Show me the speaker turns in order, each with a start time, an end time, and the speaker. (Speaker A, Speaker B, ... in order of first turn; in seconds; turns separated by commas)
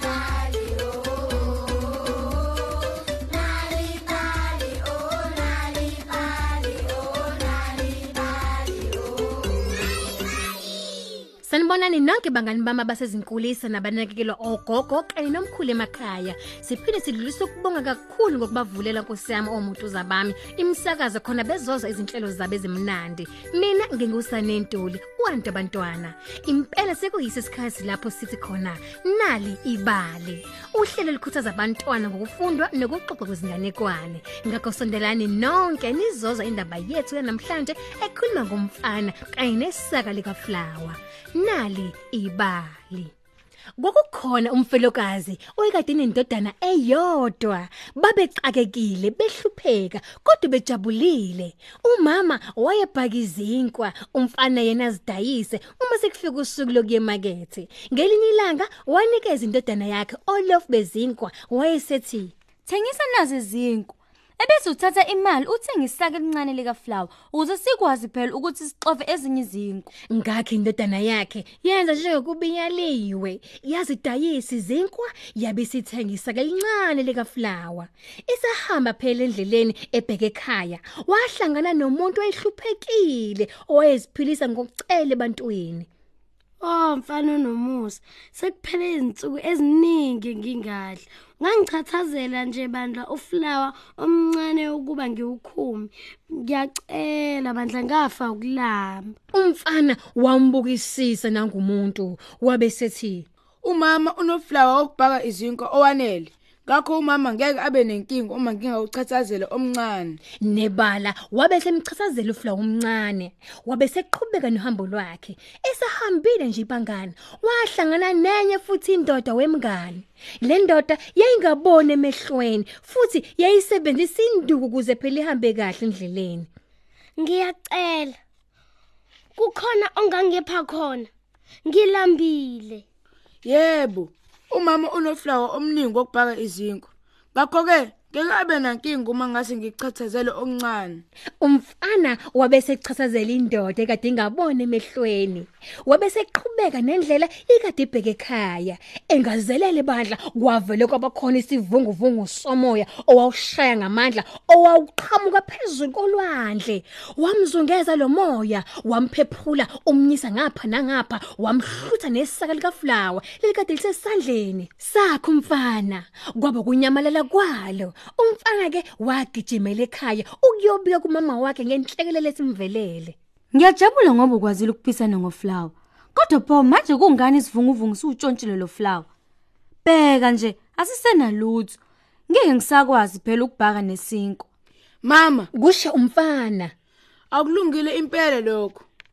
Speaker A: 3.9-4.3, Speaker A: 5.1-5.7, Speaker B: 11.4-43.1, Speaker B: 43.8-62.3, Speaker C: 62.7-69.9, Speaker B: 70.1-85.9, Speaker A: 86.6-99.1, Speaker B: 99.3-103.3, Speaker D: 103.6-110.2, Speaker B: 110.4-126.5, Speaker A: 127.2-128.2, Speaker A: 129.4-131.1, Speaker A: 131.7-132.8, Speaker D: 133.4-141.0, Speaker B: 141.4-173.2, Speaker C: 173.5-179.1, Speaker C: 179.8-181.8, Speaker C: 182.3-184.4, Speaker D: 185.0-185.5, Speaker B: 185.5-186.7, Speaker D: 187.3-188.8